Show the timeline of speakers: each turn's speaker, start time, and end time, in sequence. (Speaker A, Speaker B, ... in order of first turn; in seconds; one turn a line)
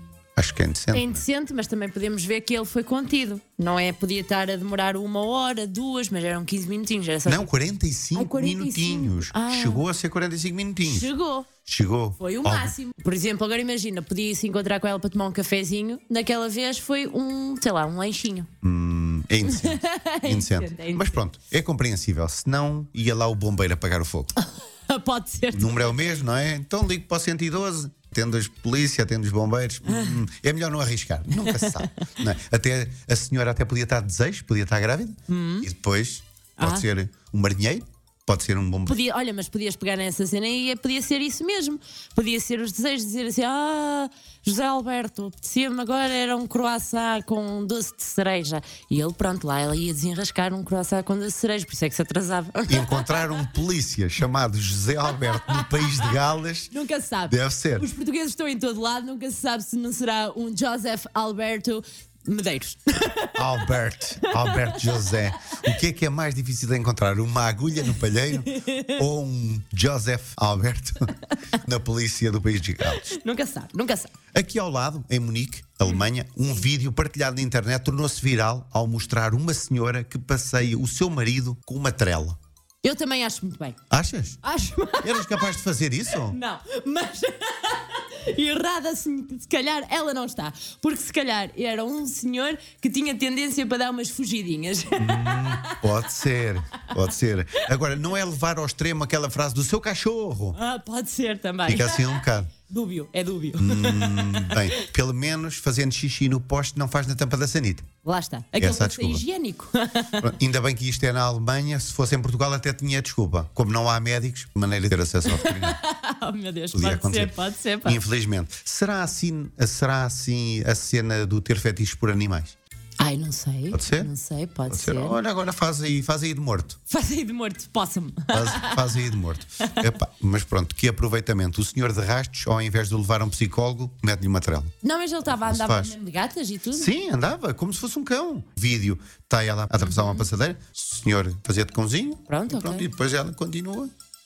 Speaker A: 0.4-1.2
Speaker B: 0.9-7.5
Speaker A: 7.3-11.1
Speaker B: 8.2-9.8
Speaker B: 10.8-11.5
Speaker A: 11.7-12.7
Speaker B: 12.2-18.5
Speaker A: 18.6-24.3
Speaker B: 19.5-21.2
Speaker B: 24.4-26.2
Speaker A: 25.5-39.0
Speaker B: 29.9-30.2
Speaker B: 31.4-31.9
Speaker B: 35.3-35.7
Speaker B: 36.6-36.9
Speaker B: 38.9-53.5
Speaker A: 52.7-56.7
Speaker B: 55.1-56.2
Speaker B: 56.7-65.8
Speaker A: 57.3-57.9
Speaker A: 63.4-71.1
Speaker B: 68.5-69.0
Speaker A: 71.6-73.1
Speaker B: 72.9-74.1
Speaker A: 74.3-82.4
Speaker B: 82.8-83.8
Speaker A: 83.9-84.4
Speaker B: 84.4-85.5
Speaker A: 85.0-86.4
Speaker B: 86.1-95.9
Speaker A: 95.0-100.6
Speaker B: 100.5-104.9
Speaker A: 101.7-102.5
Speaker A: 103.6-107.9
Speaker B: 108.0-110.3
Speaker A: 108.6-109.2
Speaker A: 110.2-115.8
Speaker B: 115.3-118.0
Speaker A: 116.7-117.3
Speaker A: 117.8-122.5
Speaker B: 123.0-125.2
Speaker A: 123.7-124.1
Speaker A: 124.7-126.8
Speaker B: 126.9-129.0
Speaker A: 128.3-134.7
Speaker B: 134.8-136.9
Speaker A: 135.2-136.0
Speaker A: 136.7-143.9
Speaker B: 139.8-140.3
Speaker B: 142.3-142.9